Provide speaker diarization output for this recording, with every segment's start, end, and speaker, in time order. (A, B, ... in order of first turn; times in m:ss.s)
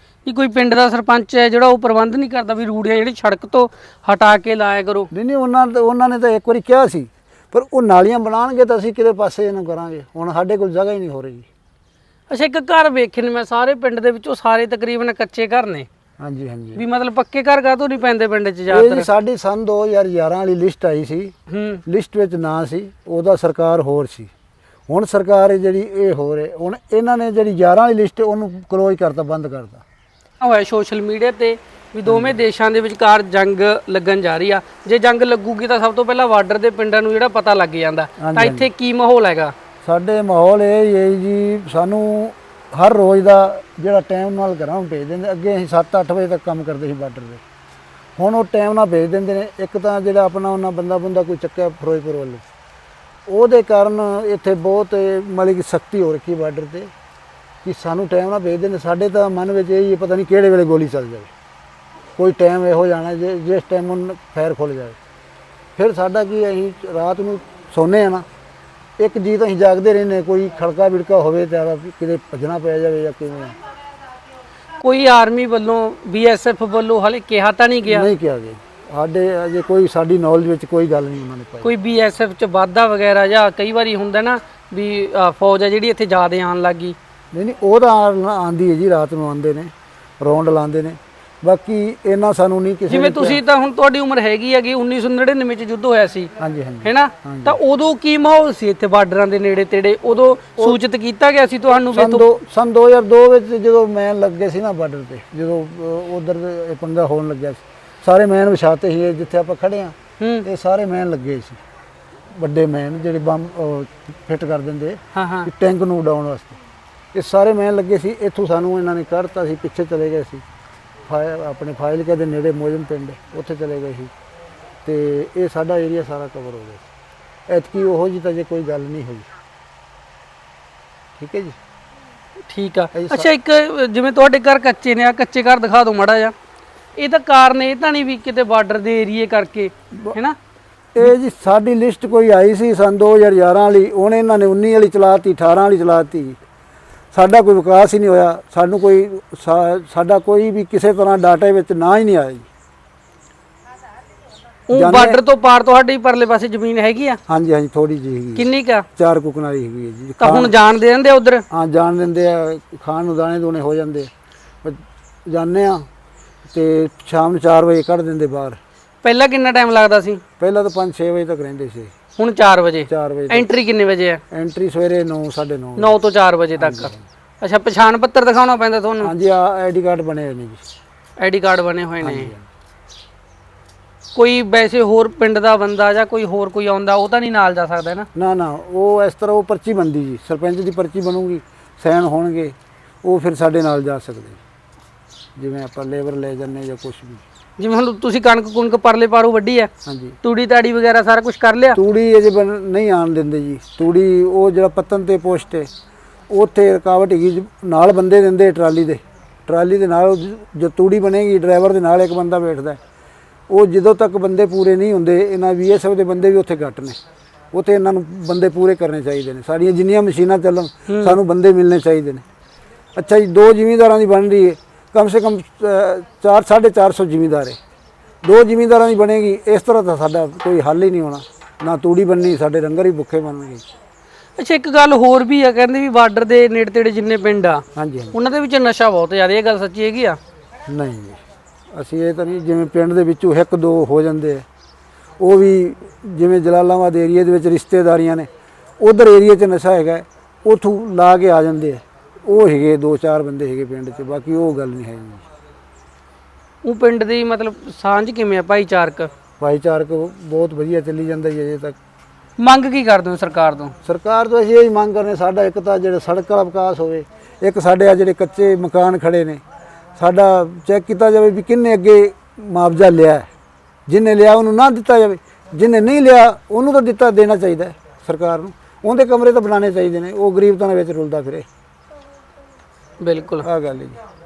0:00.2-0:05.1 A
0:05.1-0:11.4 B
0:12.3-0:15.9 A
0:16.2-0:16.8 B
0:16.8-0:19.1 A
0:18.7-0:21.3 B
0:21.5-0:21.8 A
0:21.8-0:24.3 B
0:24.9-0:29.8 B
0:30.4-0:39.5 A
0:32.0-0:32.4 B
0:38.2-0:38.7 B
0:39.8-0:47.4 B
0:48.2-0:52.4 B
0:53.3-0:56.9 B
0:57.6-1:01.3 B
1:02.2-1:05.0 B
1:05.8-1:08.2 B
1:09.0-1:13.6 B
1:14.8-1:18.1 A
1:17.9-1:21.7 B
1:21.6-1:27.0 A
1:27.3-1:33.4 B
1:32.9-1:42.2 A
1:36.4-1:37.6 B
1:41.9-1:51.6 B
1:50.2-1:50.4 A
1:52.3-1:56.6 B
1:55.1-1:55.5 A
1:57.1-2:00.4 B
2:01.1-2:04.1 B
2:04.8-2:06.8 B
2:07.5-2:09.3 B
2:11.2-2:11.6 B
2:12.5-2:16.3 A
2:12.9-2:13.3 B
2:17.0-2:20.4 A
2:20.9-2:26.4 B
2:27.1-2:32.5 B
2:34.7-2:37.2 A
2:34.7-2:35.2 B
2:37.3-2:40.5 B
2:38.4-2:38.8 A
2:40.2-2:41.4 A
2:41.5-2:44.1 B
2:44.6-2:45.9 B
2:46.5-2:48.6 B
2:49.0-2:50.2 A
2:50.4-2:51.9 B
2:52.2-2:54.2 A
2:52.9-2:53.5 B
2:54.3-2:55.9 B
2:55.8-2:59.1 A
2:56.6-2:57.0 B
2:59.0-3:00.6 B
3:01.2-3:02.3 A
3:02.0-3:02.4 B
3:04.1-3:08.1 A
3:08.1-3:14.4 B
3:15.4-3:17.2 B
3:17.6-3:19.7 A
3:19.8-3:20.2 B
3:20.2-3:21.8 A
3:21.7-3:25.7 B
3:26.3-3:32.8 B
3:33.5-3:37.0 B
3:37.5-3:42.2 B
3:40.9-3:41.2 A
3:43.0-3:47.6 B
3:48.2-3:53.6 B
3:54.4-4:00.2 A
3:57.7-3:58.1 B
4:00.7-4:01.2 B
4:01.7-4:04.4 B
4:05.2-4:15.2 B
4:16.6-4:19.1 A
4:19.4-4:21.8 B
4:22.4-4:23.7 A
4:23.8-4:29.4 B
4:30.0-4:33.3 B
4:33.9-4:41.4 B
4:43.0-4:43.5 A
4:43.4-4:44.0 B